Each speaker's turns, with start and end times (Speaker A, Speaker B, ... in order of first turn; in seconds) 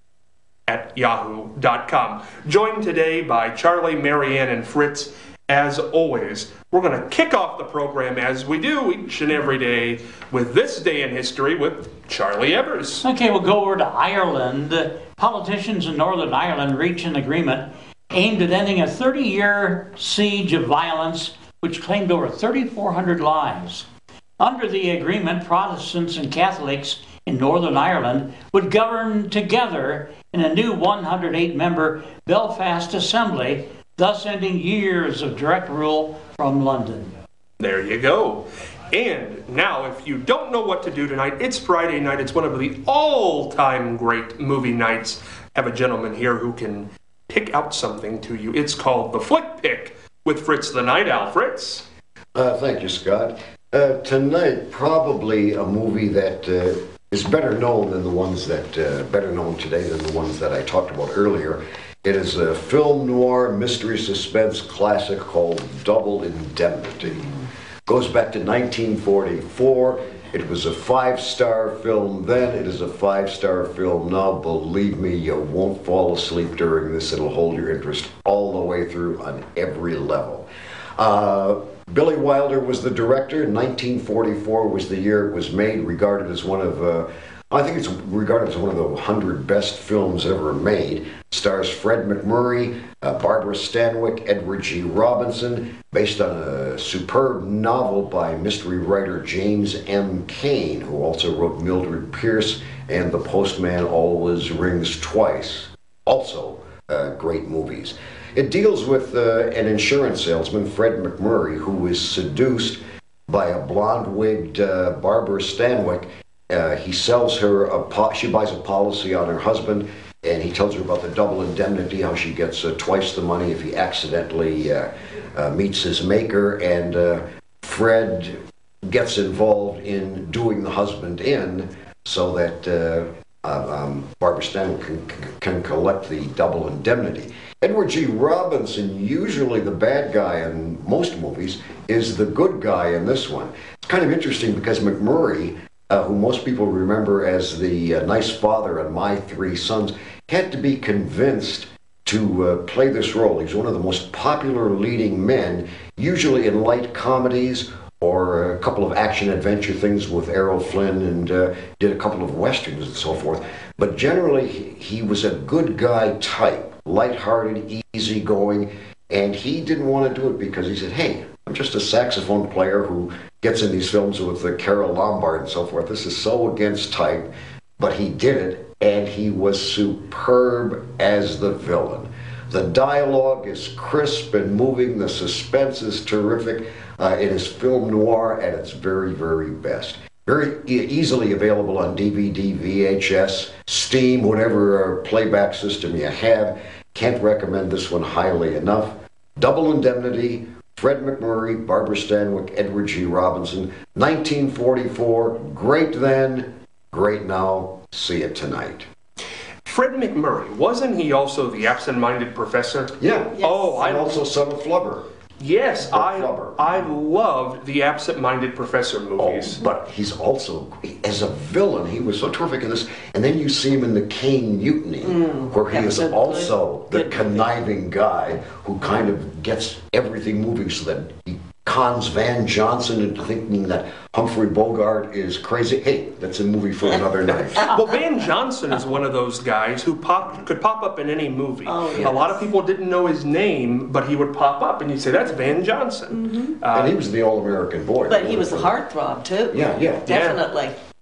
Speaker A: 0.7-13.1, 37.6-51.9, 209.7-214.2, 215.4-219.6, 237.3-247.0, 250.1-250.4
Speaker B: 13.0-23.9, 24.4-37.1
Speaker C: 52.4-67.3, 67.9-208.9, 213.0-215.1, 215.8-216.7, 219.2-237.7, 246.7-248.7, 249.5-250.1
Speaker D: 213.4-214.2, 225.0-227.4, 241.7-242.5, 246.1-246.6, 248.1-250.8